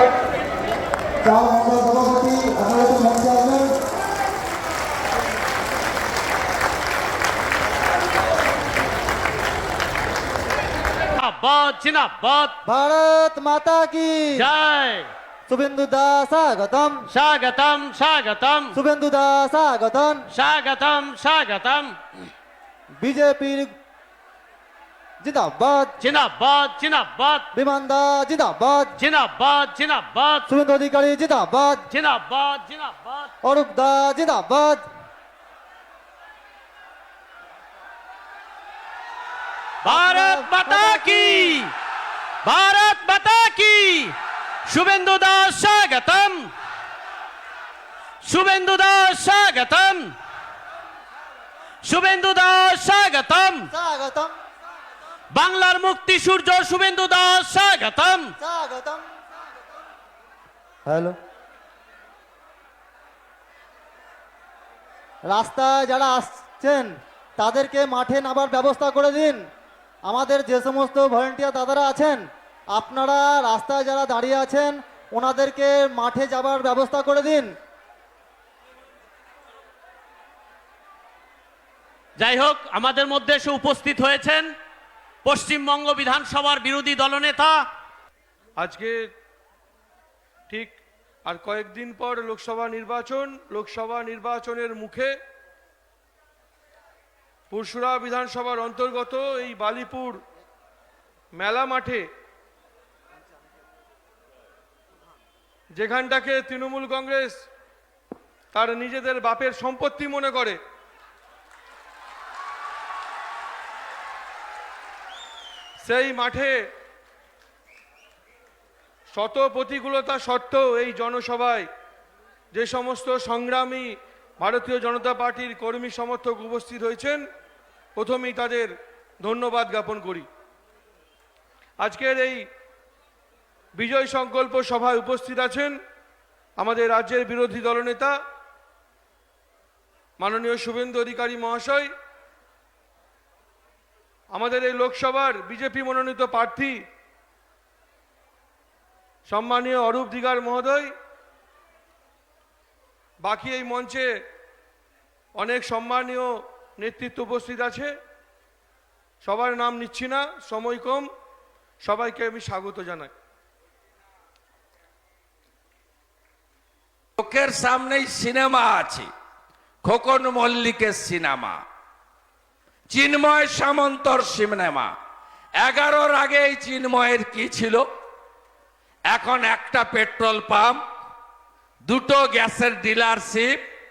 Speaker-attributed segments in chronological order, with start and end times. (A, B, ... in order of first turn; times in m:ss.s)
0:01.2-0:03.7 A
0:11.2-0:12.6 B
0:12.6-0:14.5 A
0:14.4-0:15.1 B
0:15.5-0:17.0 A
0:17.1-0:18.8 B
0:18.7-0:20.3 A
0:20.3-0:22.0 B
0:23.0-0:23.7 A
0:25.2-0:26.0 A
0:26.0-0:27.5 B
0:27.5-0:29.0 A
0:29.0-0:30.5 B
0:30.5-0:31.9 A
0:31.9-0:33.3 B
0:33.4-0:34.8 A
0:39.8-0:41.7 B
0:39.9-0:41.6 A
0:42.4-0:44.2 B
0:44.7-0:46.5 B
0:48.2-0:50.1 B
0:51.8-0:53.7 B
0:53.7-0:54.4 A
0:55.3-0:58.3 B
0:58.4-0:59.1 A
1:00.9-1:01.2 A
1:05.3-1:09.4 A
1:10.0-1:17.6 A
1:22.2-1:24.6 B
1:25.2-1:27.7 B
1:28.6-1:29.0 C
1:30.5-1:35.2 C
1:37.5-1:40.2 C
1:41.3-1:42.1 C
1:45.8-1:47.4 C
1:48.5-1:50.6 C
1:55.8-1:56.6 C
1:59.1-2:01.7 C
2:02.5-2:07.2 C
2:08.0-2:10.3 C
2:11.8-2:12.5 C
2:13.8-2:15.8 C
2:16.6-2:18.1 C
2:20.2-2:21.9 C
2:24.3-2:26.8 C
2:29.3-2:30.9 C
2:33.2-2:34.1 C
2:35.4-2:37.9 C
2:39.2-2:41.1 C
2:41.8-2:43.1 C
2:47.2-2:49.1 D
2:49.8-2:51.6 D
2:52.9-2:54.9 D
2:55.6-2:57.8 D
2:59.1-3:00.8 D
3:01.8-3:03.6 D